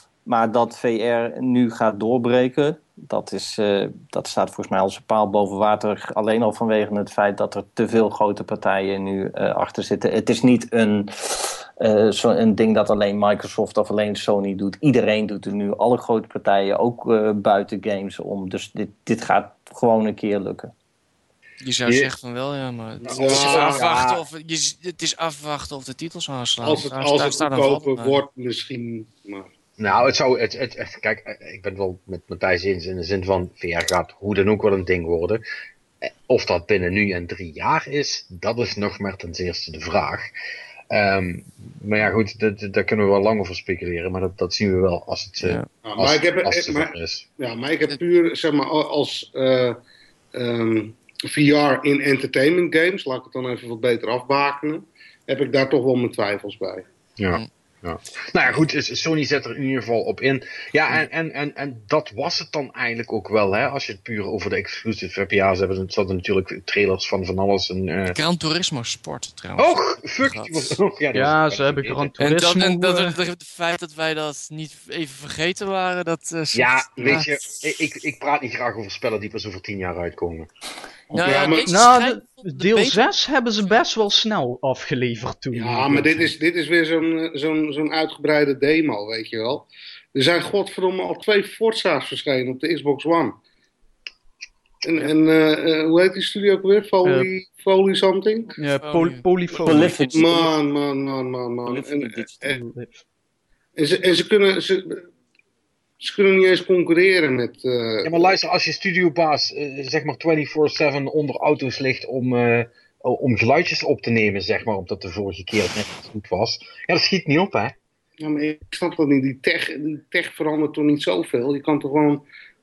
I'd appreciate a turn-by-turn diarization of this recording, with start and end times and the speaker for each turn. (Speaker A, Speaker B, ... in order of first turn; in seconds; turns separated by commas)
Speaker A: 0.3-20.7, Speaker B: 21.6-28.2, Speaker C: 23.0-24.2, Speaker D: 23.1-23.8, Speaker D: 26.6-29.5, Speaker C: 29.8-35.4, Speaker C: 36.0-40.3, Speaker C: 40.9-47.3, Speaker B: 45.4-45.7, Speaker D: 45.9-49.8, Speaker D: 50.3-56.8, Speaker C: 57.2-68.2, Speaker B: 68.1-70.5, Speaker C: 69.6-72.2, Speaker E: 71.1-73.2, Speaker B: 72.2-77.4, Speaker C: 76.5-80.5, Speaker D: 77.0-77.2, Speaker B: 81.1-83.0, Speaker D: 81.2-81.7, Speaker E: 81.5-86.3, Speaker D: 85.5-93.4, Speaker D: 94.8-98.5, Speaker E: 97.0-97.3, Speaker E: 98.6-100.5, Speaker B: 98.8-99.9, Speaker A: 99.7-100.5, Speaker D: 100.1-102.6, Speaker A: 101.7-102.6, Speaker E: 102.5-103.0, Speaker D: 103.8-105.1, Speaker D: 106.0-108.4, Speaker C: 108.0-117.7, Speaker D: 118.2-122.2